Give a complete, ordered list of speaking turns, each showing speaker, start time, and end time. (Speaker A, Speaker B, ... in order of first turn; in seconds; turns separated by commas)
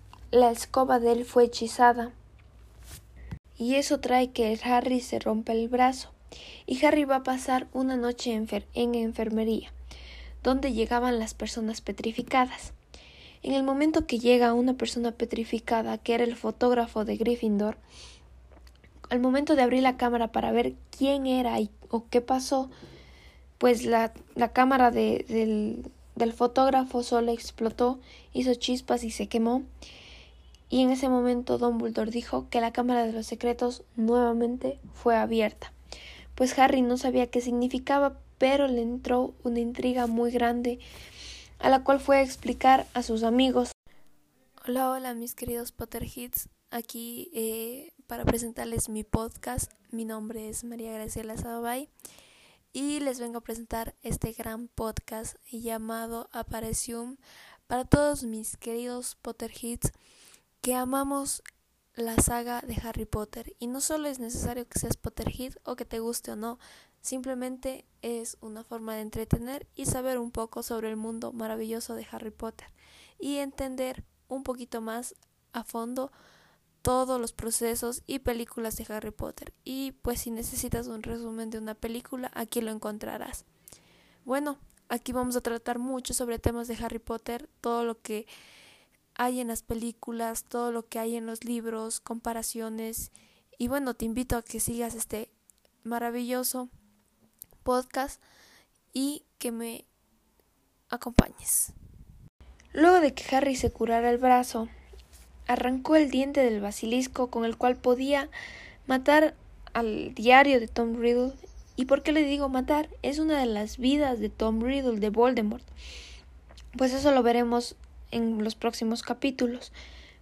Speaker A: 0.3-2.1, Speaker A: 3.6-6.1, Speaker A: 6.7-9.7, Speaker A: 10.4-12.7, Speaker A: 13.4-17.8, Speaker A: 19.1-22.7, Speaker A: 23.6-29.6, Speaker A: 30.7-35.7, Speaker A: 36.3-40.8, Speaker A: 41.6-43.7, Speaker A: 44.6-51.9, Speaker A: 52.7-59.9, Speaker A: 60.6-61.4, Speaker A: 61.9-76.1, Speaker A: 76.8-83.5, Speaker A: 84.2-88.3, Speaker A: 89.1-95.3, Speaker A: 95.8-96.7, Speaker A: 97.6-98.2, Speaker A: 98.9-99.9, Speaker A: 100.9-101.7, Speaker A: 102.7-104.7, Speaker A: 105.5-108.3, Speaker A: 108.9-115.7, Speaker A: 116.7-119.7